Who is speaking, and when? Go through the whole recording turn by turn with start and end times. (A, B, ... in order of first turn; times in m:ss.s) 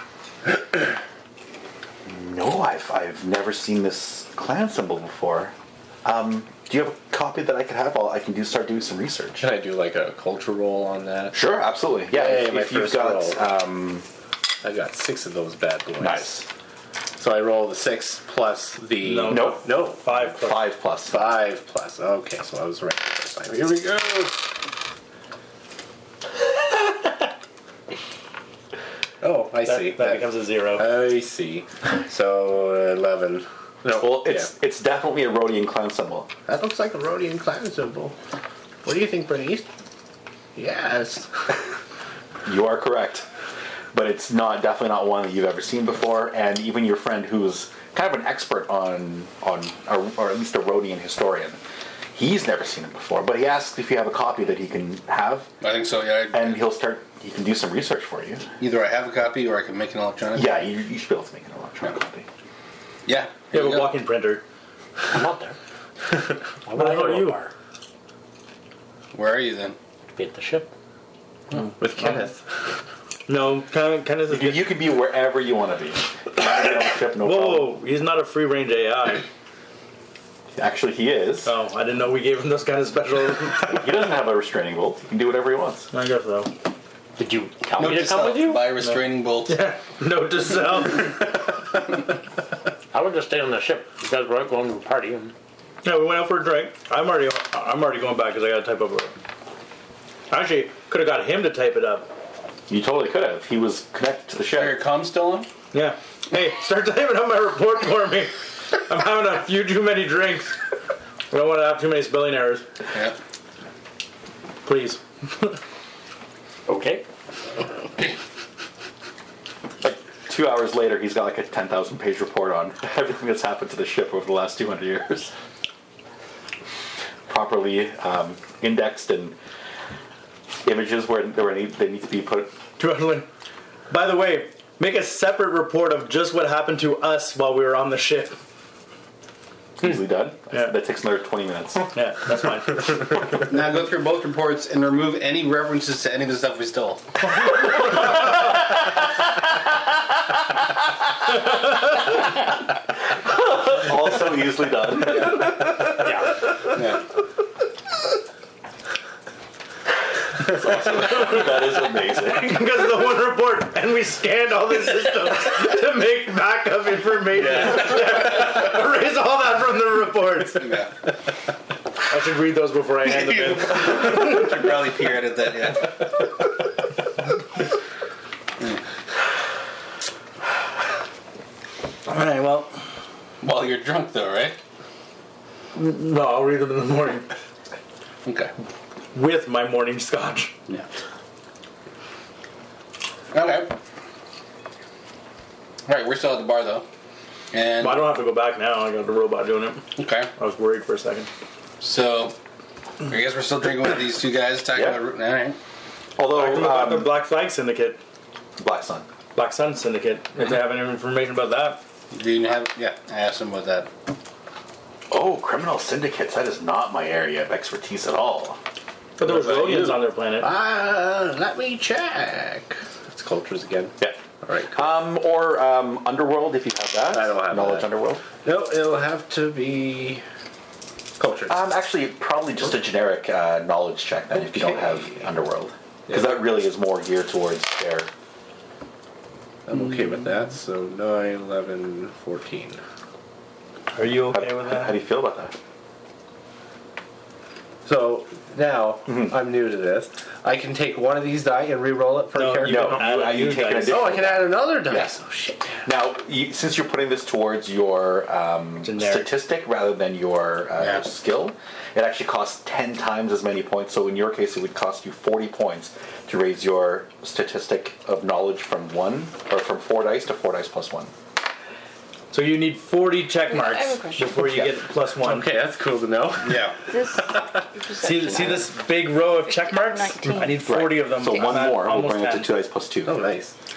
0:02.1-0:09.5 A
0:09.4-0:11.5 B
0:11.3-0:14.0 A
0:12.1-0:13.4 B
0:14.6-0:16.4 B
0:16.0-0:16.5 A
0:17.2-0:20.0 B
0:19.0-0:20.6 C
0:19.3-0:19.6 A
0:20.3-0:21.3 A
0:21.1-0:24.4 B
0:29.2-0:34.5 B
0:29.6-0:30.9 C
0:33.9-0:36.3 A
0:36.5-0:38.2 B
0:38.8-0:39.7 B
0:40.6-0:41.5 B
0:42.5-0:43.3 A
0:43.9-0:51.6 A
0:52.1-0:55.5 A
0:55.6-0:56.6 D
0:56.3-0:58.4 A
0:58.6-1:00.5 D
1:00.3-1:02.3 A
1:03.1-1:03.9 D
1:03.5-1:04.4 C
1:05.1-1:05.6 E
1:06.7-1:07.5 E
1:06.7-1:07.4 C
1:09.1-1:09.8 D
1:10.2-1:10.7 E
1:11.5-1:12.2 C
1:11.8-1:12.4 B
1:13.3-1:14.8 C
1:14.3-1:17.7 A
1:17.2-1:19.3 C
1:20.6-1:21.5 A
1:21.4-1:23.9 C
1:23.7-1:25.9 A
1:25.9-1:26.5 C
1:27.2-1:28.7 E
1:27.8-1:29.6 D
1:28.8-1:31.3 C
1:32.9-1:35.3 E
1:35.8-1:39.2 C
1:40.3-1:42.1 C
1:42.7-1:44.8 A
1:44.5-1:45.5 D
1:45.7-1:50.6 C
1:51.3-1:52.6 C
1:54.6-1:55.6 C
1:56.7-1:57.0 E
1:59.8-2:05.3 A
2:07.3-2:09.4 A
2:10.6-2:12.6 A
2:12.8-2:13.3 C
2:13.9-2:18.4 C
2:19.8-2:21.9 A
2:21.9-2:23.2 C
2:23.5-2:27.1 D
2:33.2-2:36.2 A
2:40.4-2:42.7 A
2:42.2-2:50.8 C
2:47.7-2:48.1 D
2:50.6-2:50.9 D
2:52.1-2:54.1 C
2:53.1-2:56.2 D
3:02.1-3:02.7 C
3:03.4-3:04.6 D
3:05.8-3:07.3 C
3:08.2-3:08.5 D
3:09.1-3:10.6 C
3:13.3-3:13.8 D
3:15.9-3:16.8 D
3:17.5-3:18.1 D
3:17.8-3:19.8 C
3:20.0-3:20.3 D
3:20.4-3:21.3 C
3:21.8-3:22.4 D
3:23.0-3:25.6 D
3:24.7-3:25.0 A
3:26.2-3:27.2 A
3:26.3-3:28.0 C
3:28.6-3:29.1 A
3:29.4-3:31.8 C
3:32.1-3:33.9 D
3:35.1-3:38.6 A
3:39.2-3:40.5 C
3:39.2-3:40.0 D
3:40.4-3:44.8 B
3:44.7-3:48.2 A
3:47.1-3:47.9 B
3:48.4-3:50.2 B
3:51.2-3:51.7 B
3:51.5-3:58.1 A
3:54.3-3:55.2 B
3:56.1-3:56.5 B
3:59.7-4:02.8 B
4:03.9-4:05.0 C
4:04.3-4:05.5 A
4:07.8-4:13.1 B
4:09.1-4:09.4 A
4:12.4-4:14.2 C
4:12.6-4:15.2 A
4:13.8-4:15.8 B
4:15.8-4:31.1 A
4:18.8-4:19.3 C
4:20.8-4:21.0 D
4:32.3-4:35.5 C
4:33.5-4:34.4 F
4:34.4-4:34.7 A
4:35.2-4:36.7 B
4:36.4-4:36.8 D
4:36.9-4:38.7 F
4:38.0-4:42.5 C
4:39.4-4:40.7 F
4:40.5-4:43.2 A
4:43.0-4:43.5 B